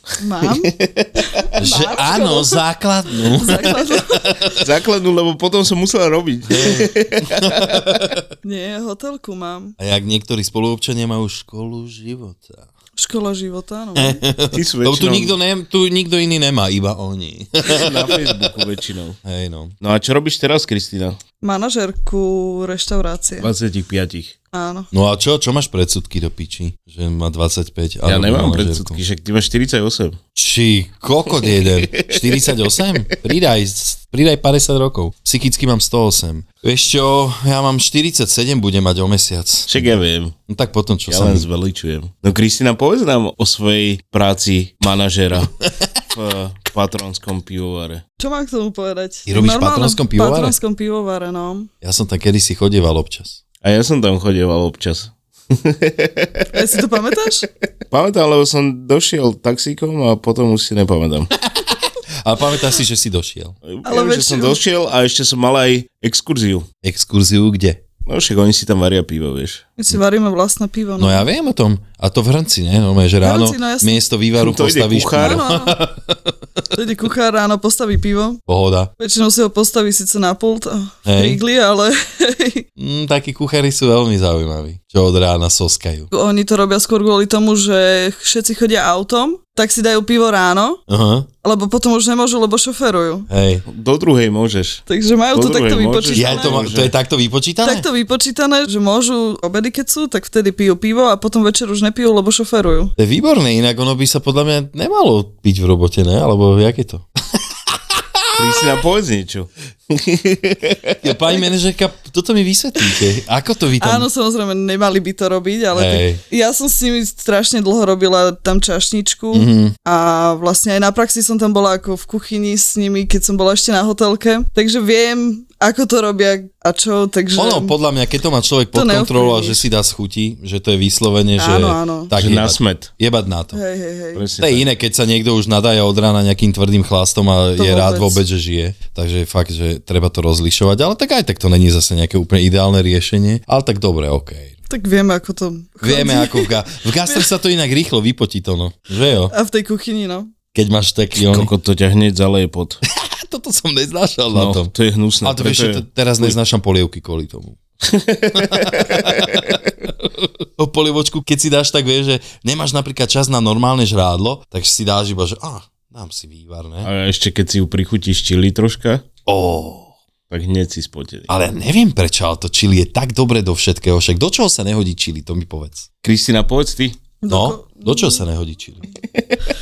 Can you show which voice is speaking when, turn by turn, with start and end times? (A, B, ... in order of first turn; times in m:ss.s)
0:00.2-0:00.7 A
0:00.4-0:01.1 B
0:01.4-0:02.6 A
0:01.6-0:04.6 C
0:03.3-0:04.3 A
0:04.6-0:07.8 B
0:06.5-0:08.2 C
0:08.4-0:09.7 A
0:09.8-0:12.6 C
0:13.0-0:14.2 A
0:14.0-0:18.5 C
0:14.5-0:15.3 B
0:17.7-0:19.2 B
0:19.2-0:19.7 C
0:19.8-0:21.2 B
0:21.4-0:23.5 A
0:23.4-0:24.3 B
0:24.5-0:24.9 A
0:24.9-0:29.0 C
0:28.0-0:30.2 B
0:30.4-0:40.0 C
0:31.4-0:32.7 B
0:39.7-0:40.4 B
0:40.5-0:41.5 C
0:41.1-0:45.5 B
0:46.1-0:48.0 B
0:48.2-0:51.7 A
0:49.3-0:50.6 C
0:51.8-0:53.4 C
0:53.6-0:56.4 B
0:56.5-0:57.5 A
0:57.9-1:01.3 B
1:01.5-1:03.6 C
1:03.6-1:06.7 B
1:03.8-1:04.6 A
1:06.8-1:07.8 C
1:08.0-1:09.6 B
1:09.8-1:11.3 A
1:11.0-1:16.3 C
1:13.2-1:14.0 A
1:14.4-1:15.4 B
1:15.2-1:15.8 A
1:16.7-1:18.4 A
1:18.5-1:18.9 C
1:19.0-1:22.6 A
1:21.0-1:21.4 C
1:22.8-1:26.1 C
1:26.1-1:30.8 A
1:30.9-1:31.3 C
1:31.4-1:33.3 A
1:33.3-1:33.6 C
1:33.7-1:36.9 B
1:34.9-1:36.6 A
1:36.1-1:37.9 C
1:37.6-1:42.9 A
1:43.0-1:47.0 C
1:47.7-1:48.4 C
1:48.3-1:51.0 B
1:51.0-1:54.1 C
1:53.8-2:07.7 A
1:55.7-1:56.2 C
1:59.3-1:59.8 C
2:07.4-2:13.6 C
2:08.7-2:09.6 A
2:11.4-2:12.1 A
2:12.2-2:12.9 B
2:13.5-2:14.2 A
2:14.1-2:14.7 B
2:14.4-2:24.5 C
2:17.6-2:18.2 A
2:24.7-2:26.5 A
2:25.8-2:29.3 C
2:29.3-2:30.3 A
2:30.5-2:31.5 C
2:31.2-2:32.8 B
2:32.8-2:37.6 C
2:34.3-2:36.4 B
2:37.9-2:39.5 B
2:38.3-2:46.9 C
2:46.8-2:49.0 B
2:49.2-2:49.9 C
2:50.3-2:51.3 B
2:51.3-2:55.9 C
2:56.0-2:57.0 B
2:57.2-2:58.2 A
2:57.3-2:58.8 C